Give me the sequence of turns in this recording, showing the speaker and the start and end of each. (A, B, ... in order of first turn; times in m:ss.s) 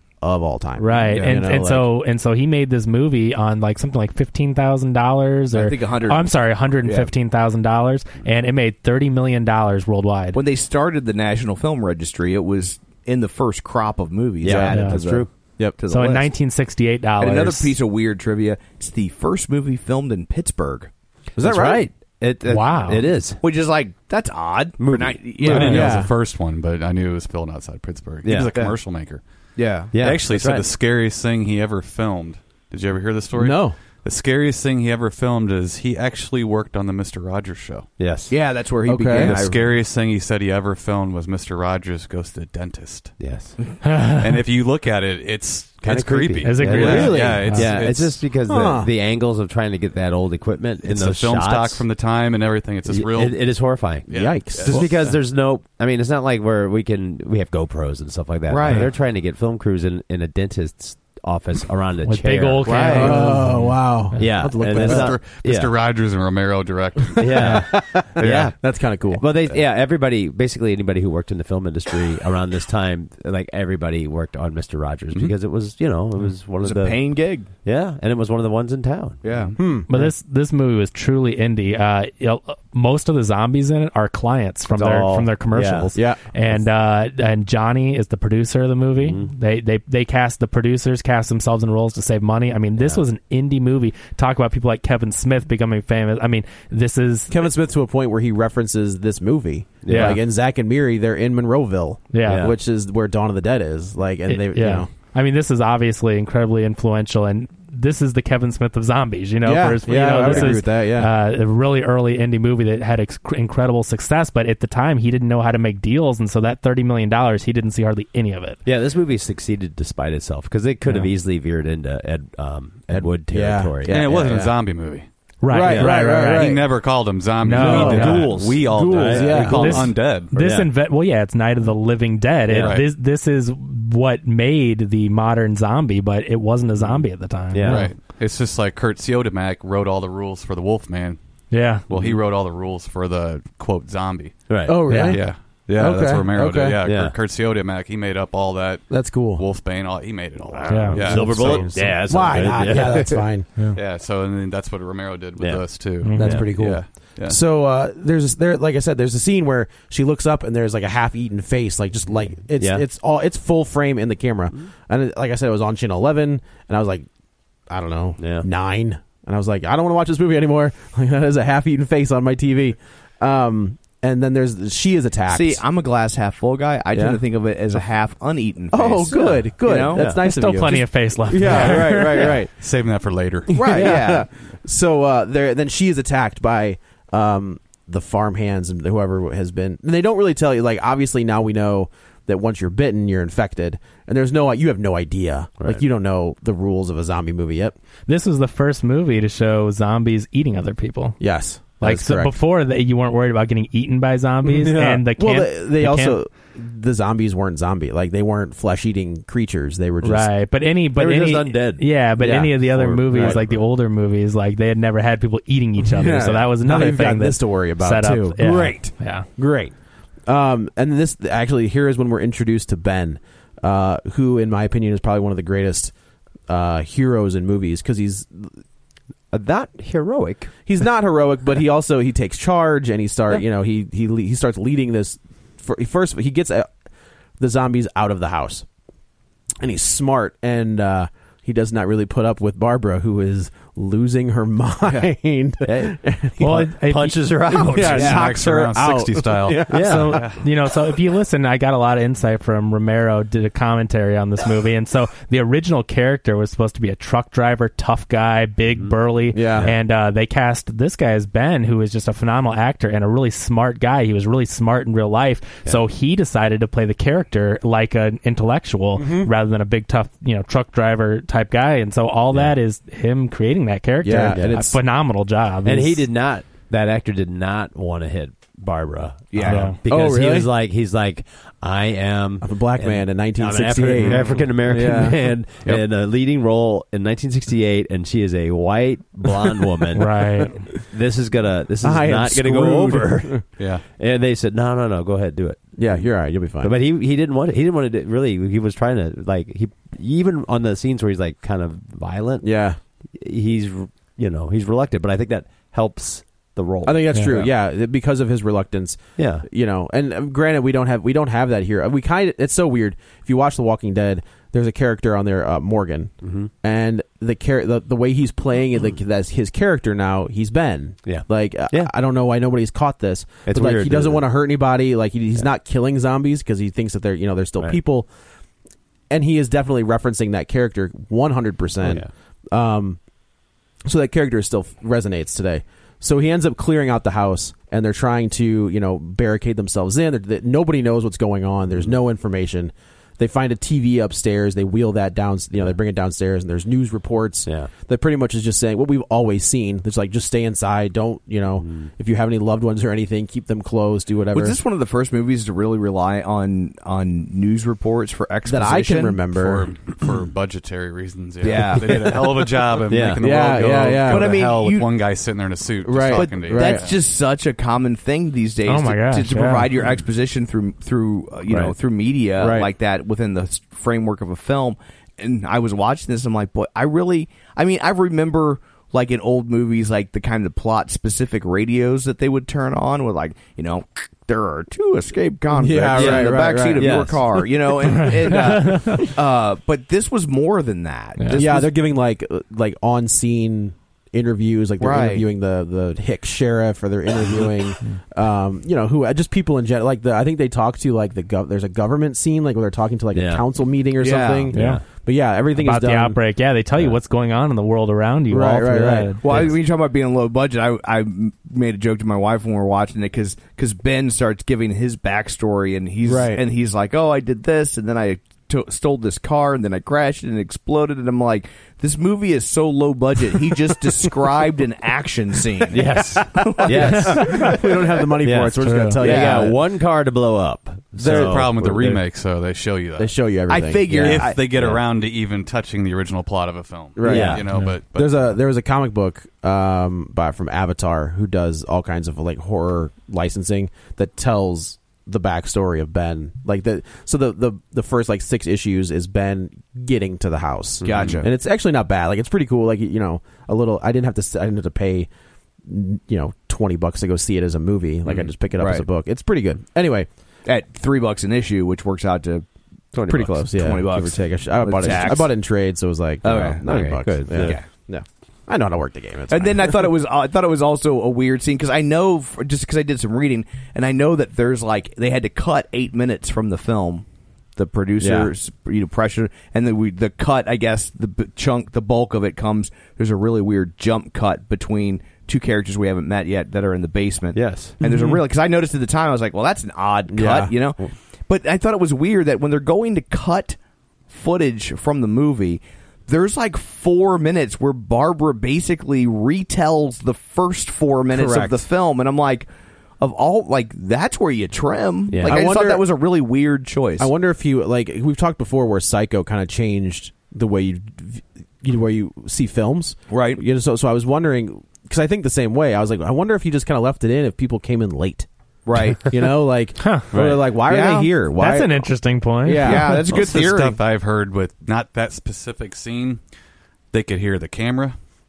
0:00.2-0:01.9 A
0:00.8-0:10.4 B
0:01.1-0:01.4 C
0:05.5-0:07.1 C
0:10.3-0:16.3 C
0:14.4-0:15.3 D
0:14.4-0:14.8 A
0:14.7-0:15.0 B
0:15.9-0:17.8 B
0:17.2-0:20.9 C
0:21.4-0:21.9 A
0:21.4-0:23.4 D
0:22.5-0:23.1 B
0:23.4-0:25.9 C
0:24.8-0:26.0 D
0:25.4-0:29.2 E
0:25.6-0:26.1 A
0:28.2-0:28.5 D
0:29.6-0:29.9 C
0:29.9-0:30.7 D
0:30.0-0:37.9 E
0:33.4-0:33.8 A
0:38.0-0:38.3 D
0:38.3-0:39.7 C
0:38.9-0:39.4 A
0:39.1-0:43.2 E
0:43.2-0:43.6 D
0:43.8-0:44.4 B
0:44.0-0:48.3 E
0:45.8-0:51.9 D
0:46.4-0:47.8 B
0:46.6-0:47.7 A
0:48.5-0:48.9 A
0:50.8-0:55.2 E
0:52.9-1:05.7 D
0:54.1-0:54.9 A
0:58.5-0:58.9 C
1:02.1-1:04.3 B
1:02.7-1:03.1 C
1:02.7-1:05.2 A
1:04.7-1:08.6 E
1:07.2-1:08.6 D
1:07.3-1:09.2 A
1:09.1-1:19.2 D
1:16.6-1:17.5 C
1:19.2-1:19.5 C
1:19.6-1:20.0 A
1:19.9-1:37.4 B
1:24.7-1:25.9 D
1:25.9-1:26.2 A
1:29.0-1:29.3 D
1:32.8-1:33.0 D
1:37.3-1:44.9 A
1:39.8-1:40.2 D
1:39.9-1:40.2 B
1:42.1-1:42.5 B
1:42.2-1:42.5 D
1:44.3-1:58.6 B
1:49.4-1:51.1 A
1:50.2-1:50.5 D
1:58.6-2:04.1 D
2:02.9-2:04.6 A
2:03.8-2:05.1 E
2:05.4-2:06.5 B
2:05.5-2:06.8 A
2:05.6-2:10.4 E
2:07.4-2:08.3 B
2:07.6-2:10.7 D
2:07.6-2:09.9 A
2:09.3-2:17.9 B
2:12.5-2:12.8 D
2:12.6-2:12.9 E
2:16.8-2:17.9 D
2:17.6-2:21.2 E
2:21.5-2:21.9 B
2:21.9-2:32.8 E
2:21.9-2:22.2 D
2:24.5-2:25.2 D
2:24.6-2:26.8 A
2:26.8-2:27.2 D
2:28.9-2:29.4 A
2:30.5-2:33.2 D
2:30.7-2:31.0 B
2:30.9-2:33.6 A
2:33.7-2:37.4 E
2:35.4-2:36.8 D
2:36.0-2:36.5 B
2:36.2-2:47.1 A
2:42.6-2:42.8 D
2:47.7-2:55.6 A
2:48.2-2:48.5 D
2:55.3-3:00.0 C
2:56.9-2:57.2 A
2:58.7-3:02.5 A
2:59.9-3:00.2 D
3:00.2-3:02.3 B
3:01.5-3:03.7 E
3:03.5-3:17.8 A
3:03.6-3:04.3 C
3:18.1-3:21.2 B
3:21.2-3:22.3 A
3:21.8-3:26.2 B
3:24.4-3:30.3 A
3:30.0-3:39.3 B
3:31.0-3:32.0 D
3:32.2-3:33.4 A
3:32.6-3:33.6 D
3:35.9-3:39.7 A
3:40.3-3:45.9 A
3:46.5-3:48.6 A
3:49.3-3:50.5 D
3:50.7-3:56.7 A
3:57.4-3:58.7 A
3:59.6-4:06.7 A
4:05.6-4:08.3 D
4:06.4-4:07.6 B
4:07.5-4:10.2 A
4:07.7-4:10.4 E
4:08.0-4:08.3 C
4:09.7-4:10.2 D
4:09.7-4:36.1 B
4:18.8-4:19.7 D
4:19.3-4:19.7 A
4:29.0-4:29.3 A
4:34.0-4:34.8 A
4:34.3-4:34.6 D
4:35.6-4:56.1 D
4:39.3-4:39.7 C
4:39.4-4:39.8 B
4:39.8-4:40.5 A
4:42.4-4:45.4 A
4:50.0-4:50.7 B
4:51.8-4:53.4 A
4:53.6-4:53.8 E
4:55.8-4:56.7 A
4:56.6-5:02.6 D
5:02.4-5:02.8 A
5:03.1-5:07.5 D
5:06.8-5:28.1 A
5:09.2-5:09.5 D
5:16.2-5:16.5 D
5:21.1-5:21.9 D
5:23.5-5:24.3 D
5:29.1-5:33.0 A
5:31.8-5:32.1 D
5:33.8-5:54.6 A
5:47.5-5:47.7 D
5:51.6-5:51.9 D
5:54.3-5:59.2 C
5:58.5-5:59.7 A
5:59.3-6:07.0 E
6:01.4-6:02.2 C
6:01.9-6:02.1 D
6:02.9-6:03.3 D
6:03.2-6:04.4 A
6:04.1-6:04.9 C
6:05.8-6:06.9 A
6:06.1-6:31.7 C
6:08.7-6:09.7 B
6:11.5-6:11.7 D
6:12.4-6:12.7 A
6:25.5-6:27.0 A
6:25.9-6:27.4 D
6:27.9-6:29.0 B
6:31.3-6:46.2 A
6:34.8-6:35.3 C
6:43.1-6:43.4 D
6:44.0-6:44.5 C
6:44.5-6:44.8 D
6:44.5-6:44.8 B
6:45.6-6:49.2 B
6:48.3-6:49.2 A
6:49.2-7:07.2 C
6:56.0-6:56.4 A
7:05.7-7:07.7 D
7:06.2-7:09.6 A
7:08.2-7:12.0 D
7:08.6-7:09.0 B
7:09.0-7:09.5 C
7:11.0-7:11.5 A
7:11.0-7:13.1 E
7:13.0-7:14.3 A
7:13.5-7:14.4 C
7:14.0-7:18.2 E
7:14.6-7:14.8 D
7:17.0-7:35.1 A
7:17.0-7:17.5 D
7:30.8-7:31.3 C
7:35.6-7:40.1 A
7:38.6-7:38.9 C
7:40.5-7:42.4 C
7:42.9-7:43.3 D
7:43.1-7:49.9 A
7:43.1-7:45.3 C
7:44.8-7:45.2 D
7:46.2-7:47.7 C
7:46.3-7:47.6 D
7:49.3-7:57.0 C
7:57.6-8:13.6 C
7:58.0-7:58.3 A
8:07.3-8:07.8 D
8:10.1-8:10.5 A
8:14.1-8:22.5 C
8:21.1-8:21.6 A
8:23.0-8:27.1 C
8:25.1-8:25.4 D
8:25.2-8:25.8 A
8:27.0-8:38.3 A
8:33.1-8:33.4 C
8:38.7-8:39.2 C
8:39.0-8:41.9 A
8:39.8-8:40.1 B
8:40.1-8:40.4 D
8:40.7-8:41.1 C
8:41.4-8:42.8 B
8:42.4-8:43.0 A
8:42.6-8:43.8 C
8:43.1-8:46.2 E
8:46.9-8:48.0 E